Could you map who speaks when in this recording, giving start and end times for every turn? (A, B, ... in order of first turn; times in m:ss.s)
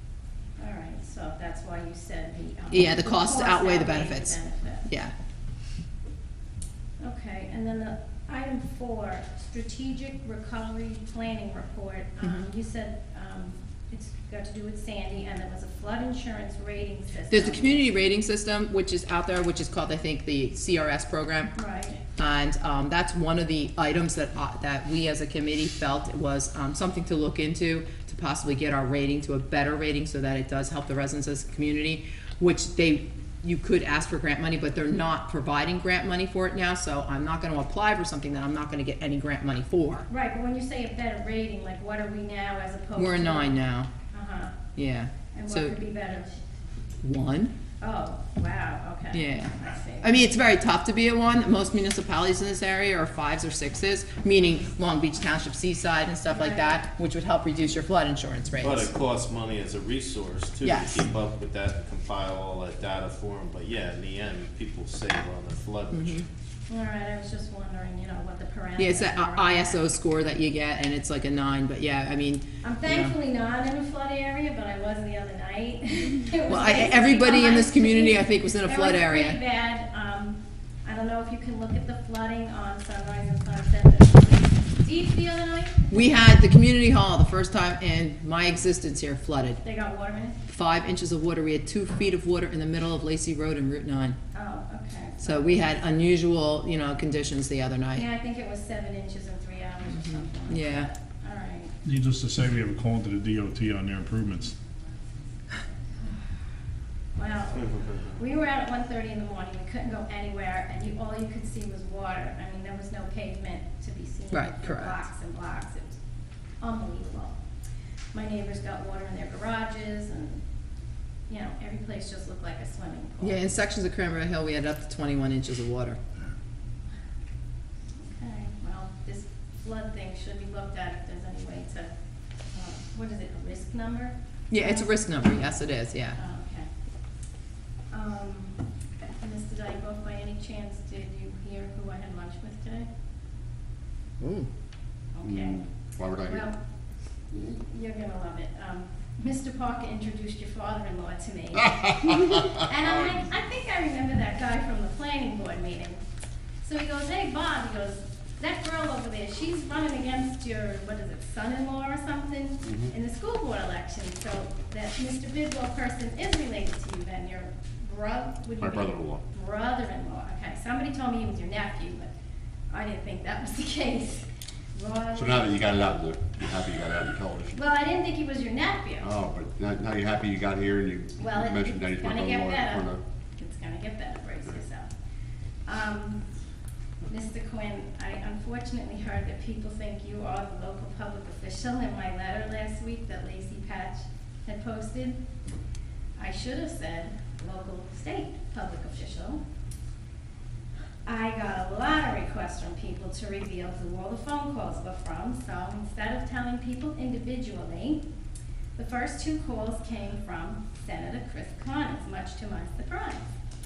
0:00.6-0:04.9 A
0:02.7-0:05.1 B
0:07.0-0:17.9 A
0:17.3-0:21.5 B
0:21.6-0:22.0 A
0:22.2-0:40.1 B
0:40.1-0:43.6 A
0:43.0-0:43.9 B
0:44.1-0:44.6 A
0:44.8-0:45.8 B
0:45.3-0:46.3 A
0:47.0-0:47.5 B
0:47.8-0:50.2 A
0:49.1-0:58.9 B
0:56.3-0:56.8 A
0:58.6-1:06.2 C
1:00.6-1:01.0 B
1:05.9-1:06.2 B
1:06.7-1:09.9 A
1:08.8-1:13.1 B
1:12.6-1:26.2 A
1:16.5-1:19.4 B
1:25.9-1:29.6 B
1:29.6-1:30.4 A
1:30.5-1:34.2 B
1:34.3-1:35.6 A
1:35.2-1:38.1 B
1:38.0-1:41.7 A
1:40.5-1:40.9 B
1:41.9-1:44.5 D
1:47.2-1:56.0 A
1:54.3-1:55.0 B
1:56.6-1:57.3 A
1:58.1-2:00.4 A
2:01.3-2:03.5 A
2:03.2-2:06.0 B
2:08.0-2:11.9 A
2:12.5-2:15.0 A
2:14.5-2:16.2 B
2:16.2-2:16.7 A
2:17.9-2:18.6 A
2:19.2-2:22.9 A
2:24.2-2:24.5 B
2:25.2-2:25.6 A
2:25.3-2:26.4 E
2:26.2-2:26.6 A
2:27.3-2:36.0 A
2:36.6-2:52.1 A
2:48.6-2:49.2 E
2:52.7-2:55.9 A
2:55.2-2:57.6 E
2:57.6-2:59.1 A
2:59.0-3:03.0 E
3:01.2-3:04.9 A
3:05.7-3:06.2 A
3:07.1-3:15.2 A
3:16.2-3:19.4 A
3:21.1-3:28.0 A
3:28.8-3:33.2 A